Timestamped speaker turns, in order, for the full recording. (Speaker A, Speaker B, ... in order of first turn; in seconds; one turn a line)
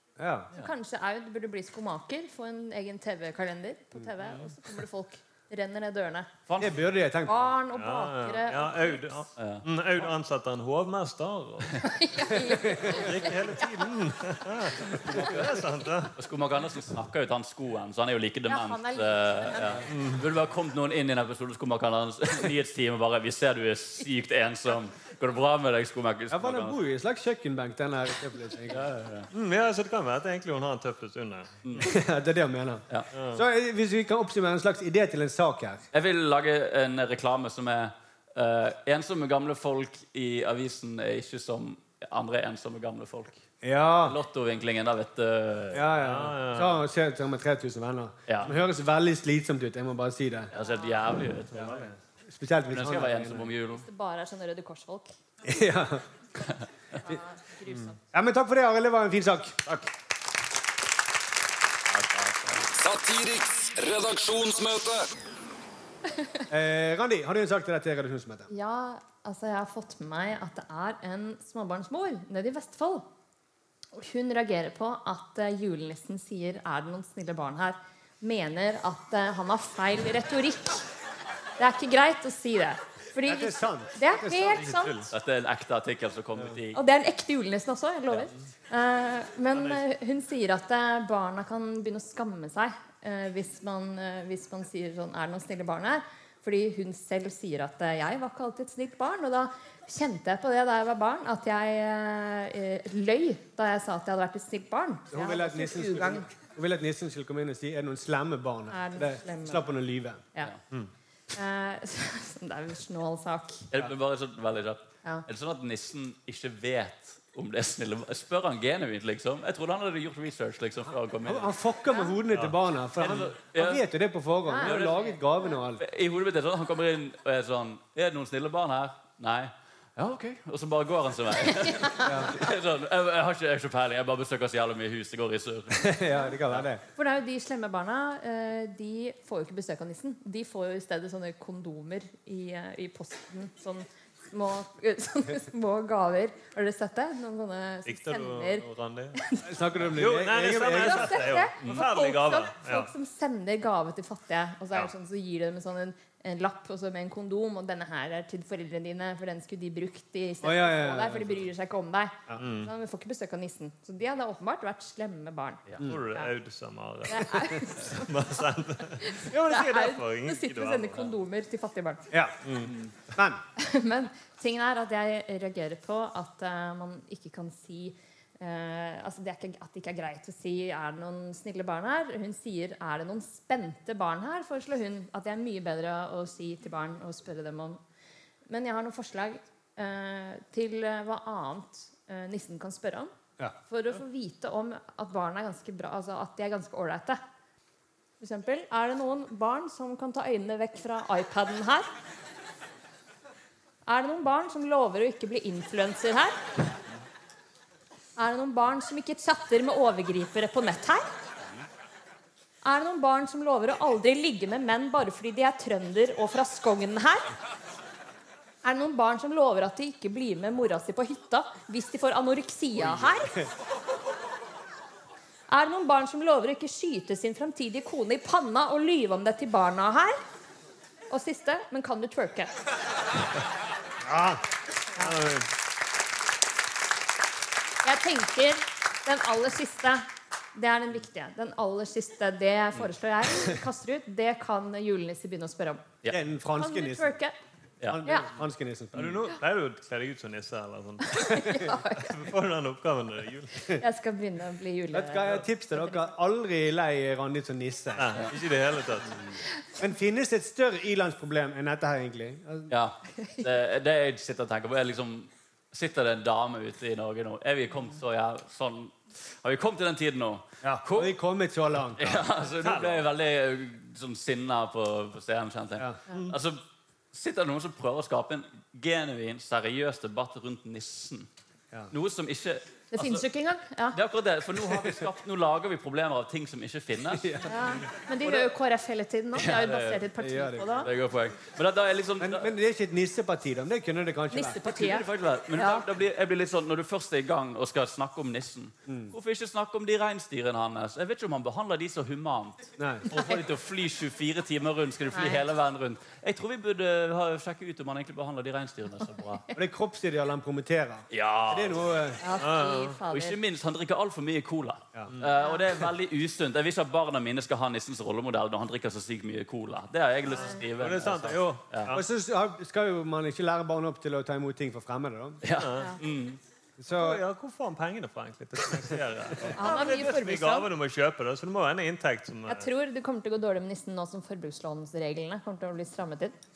Speaker A: 0.2-0.5
Speaker B: 0.6-6.3
Speaker C: 6.5-6.8
Speaker A: 6.6-7.5
Speaker B: 7.3-9.1
Speaker D: 7.7-11.9
Speaker C: 9.4-9.7
Speaker B: 11.8-13.3
Speaker D: 12.9-16.1
Speaker C: 14.9-26.8
Speaker B: 18.5-19.8
Speaker D: 19.9-20.2
Speaker A: 26.3-28.9
Speaker C: 28.7-29.3
Speaker D: 29.3-31.9
Speaker A: 31.8-35.8
Speaker D: 33.1-33.4
Speaker C: 35.9-43.4
Speaker A: 43.6-44.2
Speaker C: 44.1-45.9
Speaker A: 45.7-50.5
Speaker D: 46.0-46.8
Speaker C: 48.3-48.5
Speaker C: 50.5-52.0
Speaker B: 50.6-50.9
Speaker A: 52.3-53.5
Speaker C: 52.7-53.9
Speaker B: 53.7-55.1
Speaker A: 55.4-56.0
Speaker C: 56.4-56.6
Speaker B: 57.0-58.0
Speaker A: 58.1-59.6
Speaker C: 61.9-62.7
Speaker E: 62.8-65.1
Speaker A: 66.5-68.5
Speaker B: 68.5-73.0
Speaker B: 73.9-80.9
Speaker B: 81.6-85.0
Speaker A: 83.2-84.8
Speaker D: 84.5-85.1
Speaker C: 85.1-86.8
Speaker B: 86.7-106.2
Speaker D: 89.5-89.8
Speaker A: 105.1-110.2
Speaker B: 108.7-109.7
Speaker B: 111.3-113.7
Speaker C: 113.7-121.5
Speaker A: 121.2-125.8
Speaker C: 123.0-123.8
Speaker B: 124.5-124.7
Speaker C: 124.6-125.2
Speaker C: 125.8-136.7
Speaker B: 131.8-132.1
Speaker A: 132.0-132.3
Speaker A: 135.8-136.8
Speaker B: 137.0-149.5
Speaker D: 147.9-149.2
Speaker A: 149.4-151.3
Speaker D: 149.9-152.9
Speaker B: 150.7-166.3
Speaker A: 160.4-161.4
Speaker D: 162.4-162.7
Speaker D: 165.8-171.1
Speaker B: 167.1-168.1
Speaker B: 169.0-172.1
Speaker A: 172.1-172.4
Speaker D: 172.4-172.7
Speaker C: 172.6-172.9
Speaker A: 173.1-173.4
Speaker B: 173.6-187.8
Speaker B: 188.5-193.1
Speaker B: 193.7-197.2
Speaker B: 198.2-201.9
Speaker B: 203.9-206.4
Speaker B: 208.2-211.1
Speaker B: 212.6-217.3
Speaker B: 218.6-223.3
Speaker B: 225.5-230.2
Speaker B: 231.1-232.6
Speaker A: 234.1-234.4
Speaker D: 235.0-235.5
Speaker B: 237.8-245.8
Speaker A: 246.1-247.1
Speaker B: 246.6-247.3
Speaker A: 247.9-249.3
Speaker D: 248.9-253.6
Speaker B: 251.1-252.1
Speaker B: 253.8-256.1
Speaker A: 254.9-258.2
Speaker D: 258.0-259.1
Speaker A: 259.8-262.7
Speaker C: 262.7-271.1
Speaker A: 270.7-272.2
Speaker C: 272.0-276.6
Speaker D: 272.6-273.1
Speaker C: 277.1-281.3
Speaker C: 281.9-283.2
Speaker B: 282.9-284.0
Speaker C: 283.9-287.4
Speaker A: 287.1-287.5
Speaker B: 287.5-290.9
Speaker C: 289.4-290.1
Speaker A: 290.2-290.7
Speaker C: 290.8-292.5
Speaker A: 292.2-294.6
Speaker B: 294.3-295.8
Speaker C: 294.6-309.4
Speaker A: 298.9-299.1
Speaker A: 302.8-303.1
Speaker B: 305.1-305.4
Speaker A: 309.6-312.2
Speaker C: 311.1-311.9
Speaker B: 312.2-313.4
Speaker D: 312.4-313.0
Speaker C: 313.1-321.9
Speaker D: 320.7-322.1
Speaker A: 321.9-325.4
Speaker C: 325.4-326.4
Speaker D: 325.5-326.0
Speaker A: 326.8-327.2
Speaker D: 326.9-332.7
Speaker B: 329.6-330.7
Speaker B: 332.5-336.4